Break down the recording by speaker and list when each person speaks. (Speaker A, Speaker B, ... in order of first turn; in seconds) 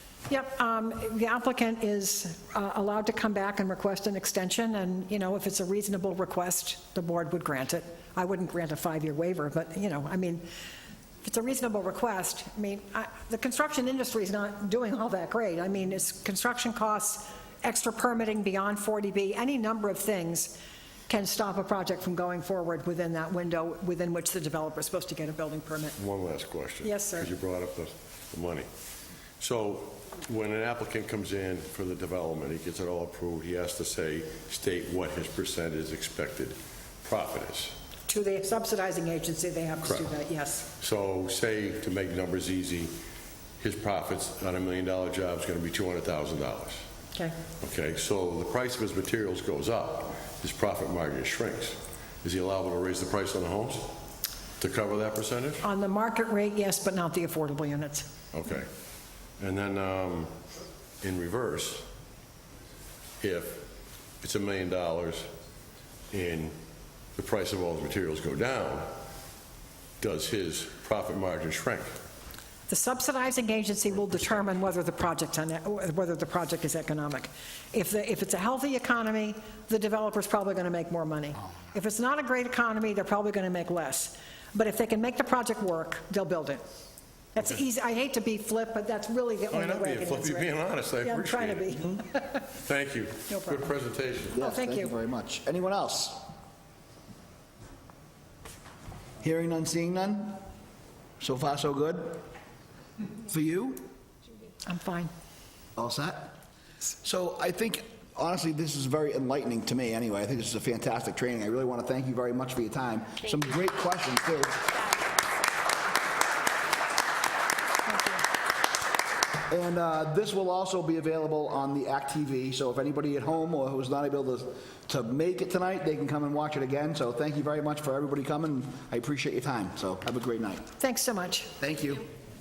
Speaker A: 0.3-10.4, 11.2-26.0, 26.8-27.3, 38.1-40.7, 55.6-58.1, 72.7-86.6, 87.3-92.2, 93.3-93.7, 94.3-94.9, 104.7-105.1, 130.8-131.5
Speaker B: 26.0-28.7, 29.4-37.8, 40.8-42.9, 43.6-46.8, 47.6-53.9, 54.6-55.6, 58.3-58.7, 59.4-60.4, 61.0-61.9, 63.2-63.7, 64.2-65.3, 66.1-66.5, 67.1-68.9, 70.0-71.9, 89.5-94.4
Speaker C: 94.3-96.2, 99.2-100.4, 101.2-102.2, 103.2-103.9, 105.8-106.4, 107.0-114.8, 119.5-130.7, 131.6-132.1